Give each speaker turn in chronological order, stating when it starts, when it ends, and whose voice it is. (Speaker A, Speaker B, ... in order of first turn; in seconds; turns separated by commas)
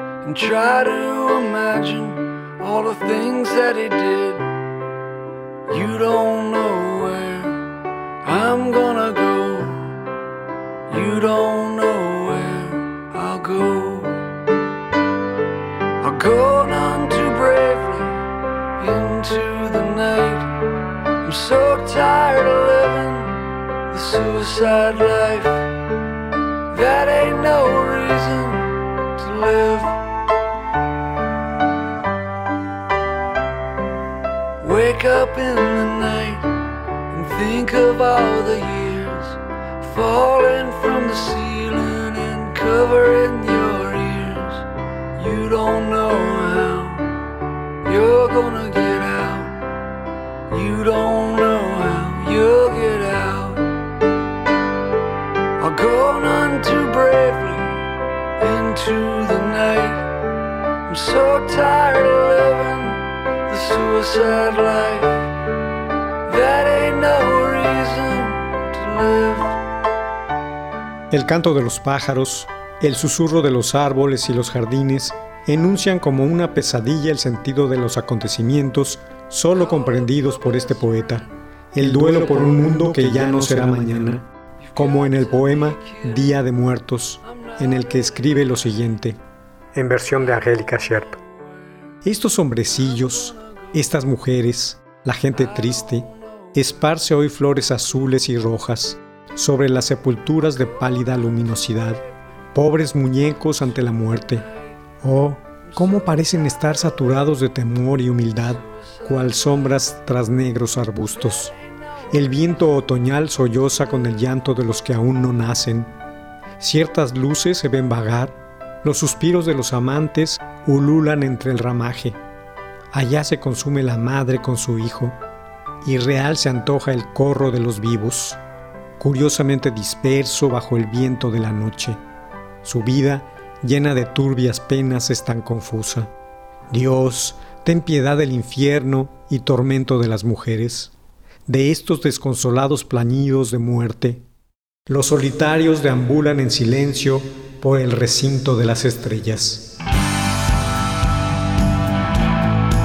Speaker A: 0.2-4.5, Speaker A: 5.7-7.6, Speaker A: 8.2-9.9, Speaker A: 10.9-14.2, Speaker A: 16.0-18.2, Speaker A: 18.8-20.5, Speaker A: 21.2-25.7, Speaker A: 26.7-29.9, Speaker A: 34.6-36.5, Speaker A: 37.1-47.1, Speaker A: 47.8-49.6, Speaker A: 50.5-53.7, Speaker A: 55.6-57.9, Speaker A: 58.4-60.1, Speaker A: 60.9-65.2, Speaker A: 66.2-69.5, Speaker B: 71.1-89.2, Speaker A: 79.5-81.3, Speaker A: 82.0-82.8, Speaker A: 84.6-86.3, Speaker A: 87.2-88.5, Speaker B: 89.7-91.2, Speaker A: 91.4-91.9, Speaker B: 92.0-102.0, Speaker A: 92.7-93.7, Speaker A: 95.3-96.7, Speaker A: 101.8-102.0, Speaker B: 102.5-104.5, Speaker A: 103.7-104.6, Speaker B: 105.0-111.5, Speaker A: 105.7-106.5, Speaker A: 108.4-109.8, Speaker A: 111.1-112.6, Speaker B: 112.1-115.9, Speaker B: 116.6-122.2, Speaker B: 122.9-125.2, Speaker B: 125.8-128.4, Speaker B: 129.0-132.0, Speaker B: 132.6-136.1, Speaker B: 136.7-140.9, Speaker B: 141.5-144.2, Speaker B: 144.9-149.7